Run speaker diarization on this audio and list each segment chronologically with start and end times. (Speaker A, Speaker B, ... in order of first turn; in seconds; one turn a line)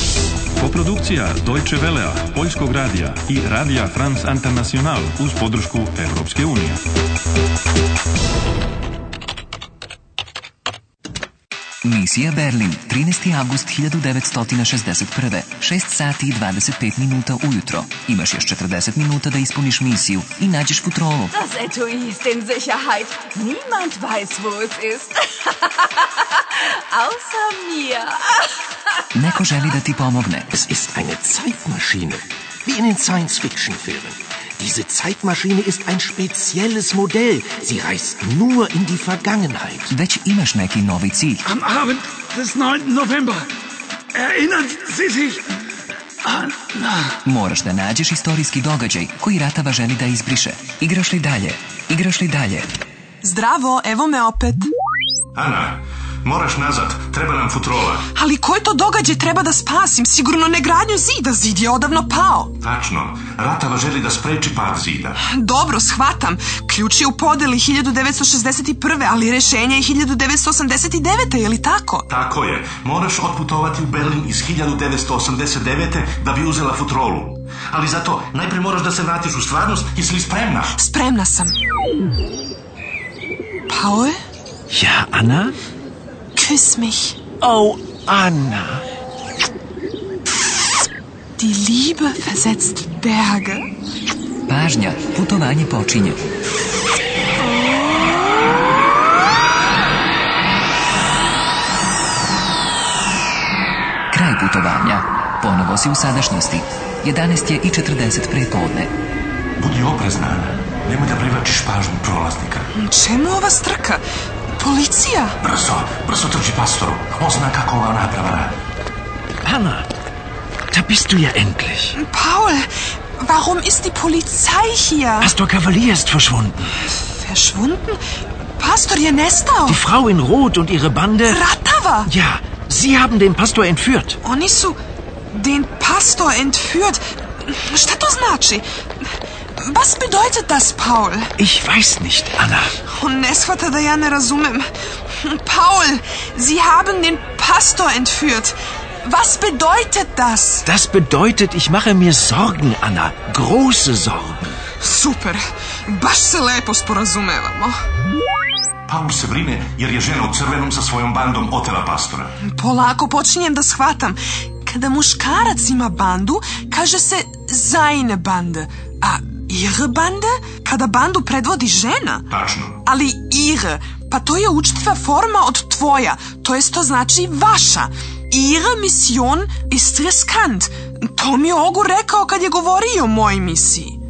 Speaker A: 0.6-6.8
Speaker B: 11.8-21.3
Speaker C: 21.3-28.5
Speaker B: 29.1-30.5
Speaker D: 30.5-39.9
Speaker B: 39.9-41.4
Speaker E: 41.5-43.5
Speaker E: 44.1-45.4
Speaker E: 46.2-47.0
Speaker B: 47.2-52.7
Speaker F: 53.2-54.7
Speaker G: 55.3-58.0
Speaker F: 58.1-62.5
Speaker G: 62.6-65.2
Speaker F: 65.2-72.1
Speaker G: 72.1-80.8
Speaker F: 80.7-81.5
Speaker F: 83.7-84.2
Speaker D: 84.7-85.5
Speaker F: 86.4-87.2
Speaker D: 87.4-88.8
Speaker F: 91.4-93.7
Speaker B: 94.5-96.2
Speaker B: 104.1-108.9
Speaker G: 109.6-112.7
Speaker F: 112.7-114.0
Speaker F: 114.6-115.4
Speaker G: 115.4-118.6
Speaker D: 119.4-119.9
Speaker D: 120.7-122.0
Speaker F: 122.0-125.3
Speaker D: 125.2-126.7
Speaker F: 127.0-128.0
Speaker F: 128.6-129.8
Speaker D: 129.7-131.4
Speaker F: 131.3-132.1
Speaker D: 132.1-134.2
Speaker F: 134.2-134.8
Speaker F: 135.3-138.6
Speaker F: 139.6-141.3
Speaker D: 141.4-142.7
Speaker F: 142.8-150.7
Speaker D: 150.7-154.4
Speaker F: 154.8-157.8
Speaker G: 158.8-162.3
Speaker F: 162.4-172.3
Speaker G: 172.3-172.8
Speaker F: 172.8-184.0